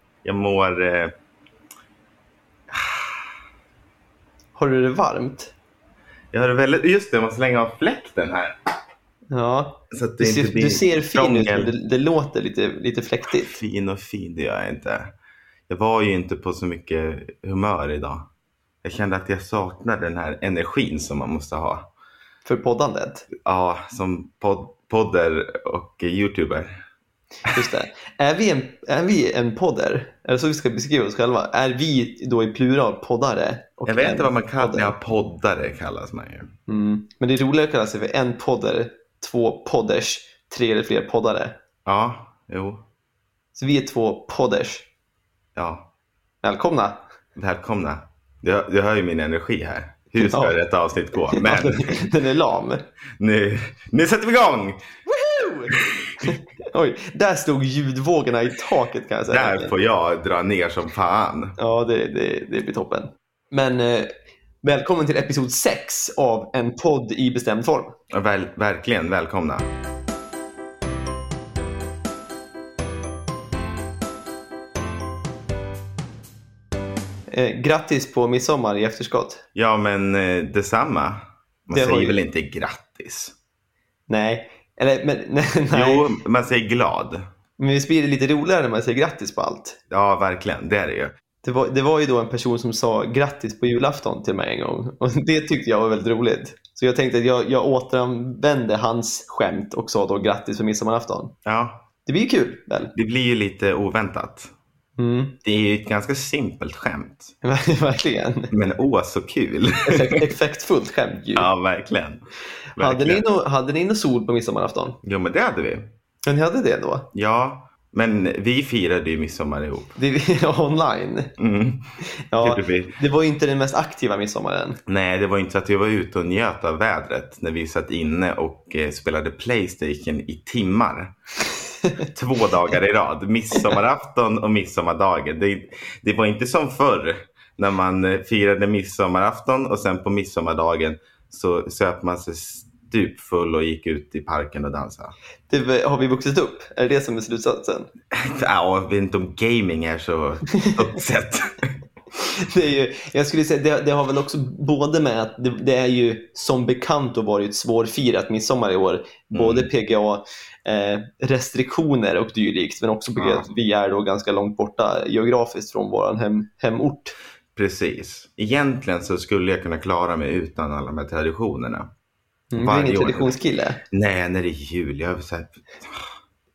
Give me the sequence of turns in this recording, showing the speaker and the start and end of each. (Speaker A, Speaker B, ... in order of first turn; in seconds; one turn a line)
Speaker A: 0.2-1.1
Speaker A: 2.7-3.3
Speaker B: 4.5-5.5
Speaker A: 6.3-8.5
Speaker B: 9.3-13.6
Speaker A: 9.9-11.7
Speaker A: 13.4-15.1
Speaker A: 15.7-18.3
Speaker A: 18.8-21.9
Speaker B: 22.4-23.2
Speaker A: 23.4-26.8
Speaker B: 27.5-34.9
Speaker A: 33.9-36.5
Speaker B: 36.7-41.5
Speaker A: 41.8-42.8
Speaker B: 43.5-44.9
Speaker A: 45.5-45.9
Speaker B: 46.4-47.0
Speaker A: 47.4-52.0
Speaker B: 50.2-50.6
Speaker B: 51.2-52.8
Speaker A: 53.2-54.8
Speaker B: 55.1-59.7
Speaker A: 55.9-56.3
Speaker A: 59.3-61.5
Speaker B: 61.6-64.1
Speaker B: 64.6-67.9
Speaker A: 68.1-69.7
Speaker B: 77.3-79.4
Speaker A: 79.5-83.3
Speaker B: 81.7-82.2
Speaker B: 84.1-86.1
Speaker A: 85.7-87.2
Speaker B: 87.6-89.8
Speaker A: 89.9-91.1
Speaker B: 91.4-101.3
Speaker A: 101.4-101.8
Speaker B: 102.0-102.9
Speaker A: 102.9-104.5
Speaker B: 105.0-105.3
Speaker A: 105.4-107.3
Speaker B: 107.4-108.5
Speaker A: 108.5-110.3
Speaker B: 109.8-111.5
Speaker A: 111.3-112.2
Speaker A: 112.8-113.2
Speaker B: 112.8-115.0
Speaker A: 115.0-115.9
Speaker B: 116.2-117.1
Speaker A: 117.1-120.0
Speaker B: 120.0-121.3
Speaker A: 121.4-121.9
Speaker B: 122.0-124.8
Speaker A: 122.4-122.9
Speaker A: 124.9-131.1
Speaker A: 132.0-145.1
Speaker B: 145.5-147.9
Speaker A: 148.1-151.7
Speaker B: 150.5-150.8
Speaker B: 152.2-167.1
Speaker A: 159.3-159.7
Speaker A: 163.2-163.5
Speaker A: 167.5-171.9
Speaker B: 172.5-173.8
Speaker A: 172.5-173.3
Speaker A: 173.9-176.1